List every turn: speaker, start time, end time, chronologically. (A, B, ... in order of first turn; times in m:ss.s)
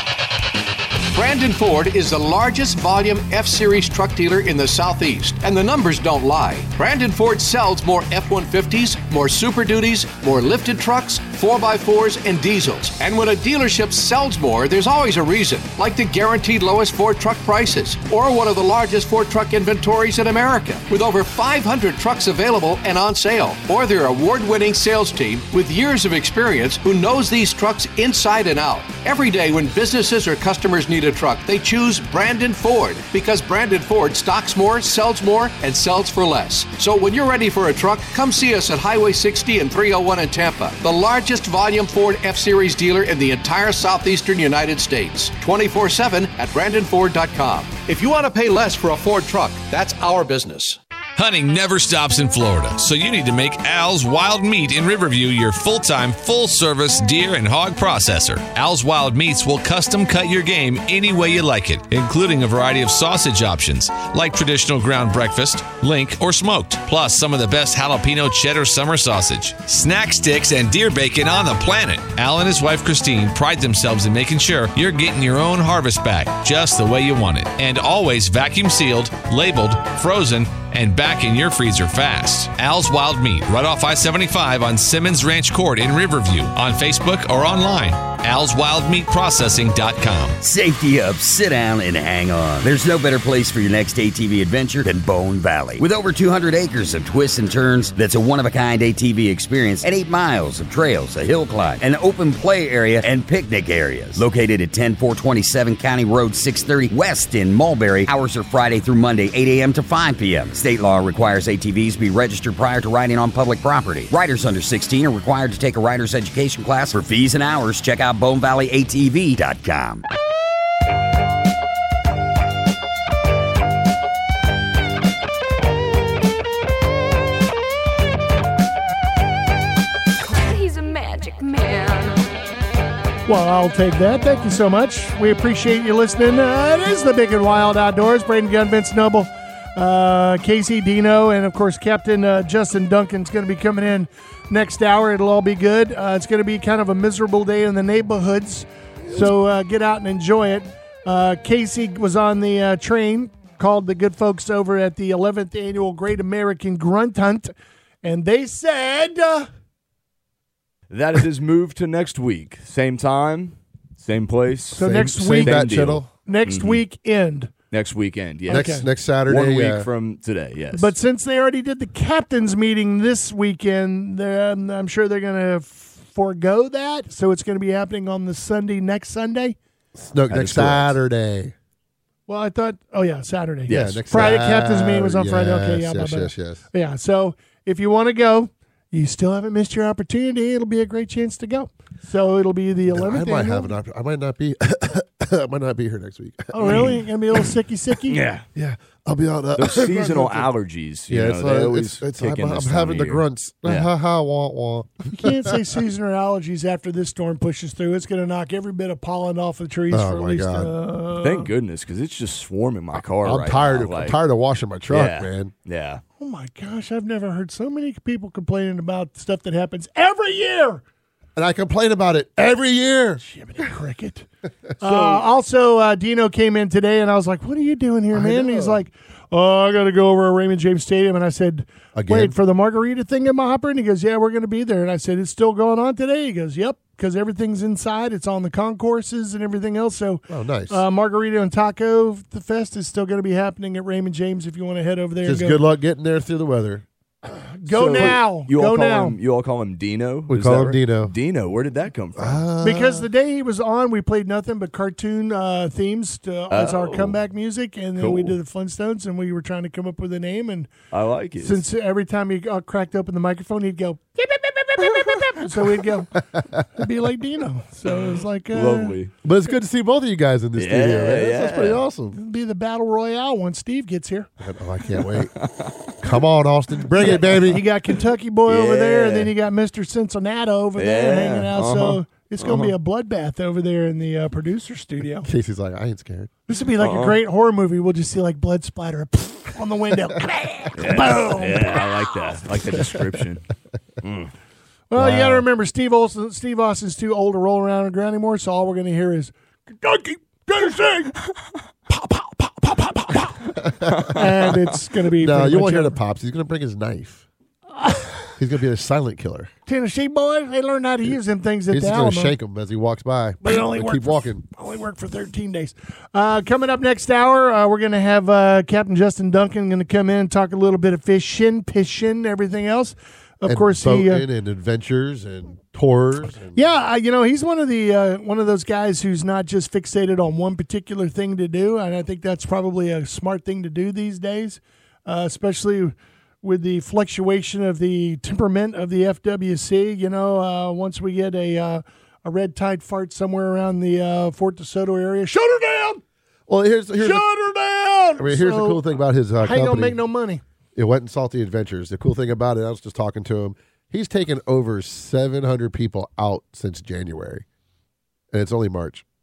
0:01.1-0:50.8 A
0:51.2-1:30.4 B
1:30.4-2:00.0 C
2:10.2-2:12.2 D
2:13.3-2:37.5 E
2:38.0-2:39.5 E
2:40.9-2:46.8 F
2:44.7-2:45.6 E
2:44.8-2:46.1 G
2:46.3-2:47.5 E
2:47.7-2:50.9 F
2:48.5-2:48.9 E
2:48.5-2:49.9 G
2:50.8-2:59.6 E
3:00.0-3:01.5 G
3:00.3-3:01.0 F
3:02.3-3:13.7 E
3:03.7-3:04.1 F
3:03.7-3:06.6 G
3:12.9-3:17.4 G
3:16.5-3:18.2 E
3:16.6-3:17.0 F
3:18.1-3:18.5 F
3:18.6-3:20.5 G
3:19.6-3:23.9 F
3:21.1-3:25.6 G
3:25.1-3:31.5 E
3:29.9-3:30.7 G
3:31.2-3:34.2 F
3:33.2-3:35.5 G
3:34.9-3:36.0 F
3:36.2-3:40.8 E
3:41.4-3:43.2 G
3:43.2-3:44.3 E
3:44.8-4:05.6 E
3:44.8-3:45.2 G
3:48.1-3:48.8 G
3:52.0-3:52.4 G
4:00.3-4:00.8 G
4:05.2-4:08.2 G
4:07.6-4:09.2 E
4:07.7-4:12.4 F
4:10.3-4:11.1 G
4:12.2-4:13.1 G
4:12.6-4:20.7 E
4:16.5-4:17.2 F
4:18.0-4:18.4 F
4:20.9-4:21.6 F
4:21.4-4:29.0 E
4:26.3-4:26.7 G
4:28.5-4:29.1 F
4:29.2-4:32.2 G
4:30.6-4:31.8 F
4:32.1-4:34.3 E
4:34.4-4:37.6 G
4:35.4-4:35.8 F
4:37.0-4:45.3 E
4:38.5-4:39.3 F
4:40.8-4:42.8 F
4:45.2-4:46.3 G
4:46.5-4:52.2 E
4:46.8-4:47.2 F
4:50.8-4:53.5 F
4:54.0-4:54.3 F
4:54.9-5:01.2 E
4:55.0-4:55.4 G
5:01.9-5:06.0 E
5:03.5-5:04.5 G
5:05.2-5:07.3 G
5:08.3-5:09.5 G
5:09.7-5:12.4 E
5:11.7-5:14.4 G
5:13.4-5:24.2 E
5:23.4-5:26.7 G
5:26.5-5:46.0 E
5:46.5-5:47.3 G
5:47.0-5:48.8 E
5:48.2-5:50.0 G
5:49.4-5:50.4 E
5:50.8-5:57.4 G
5:58.3-5:59.0 G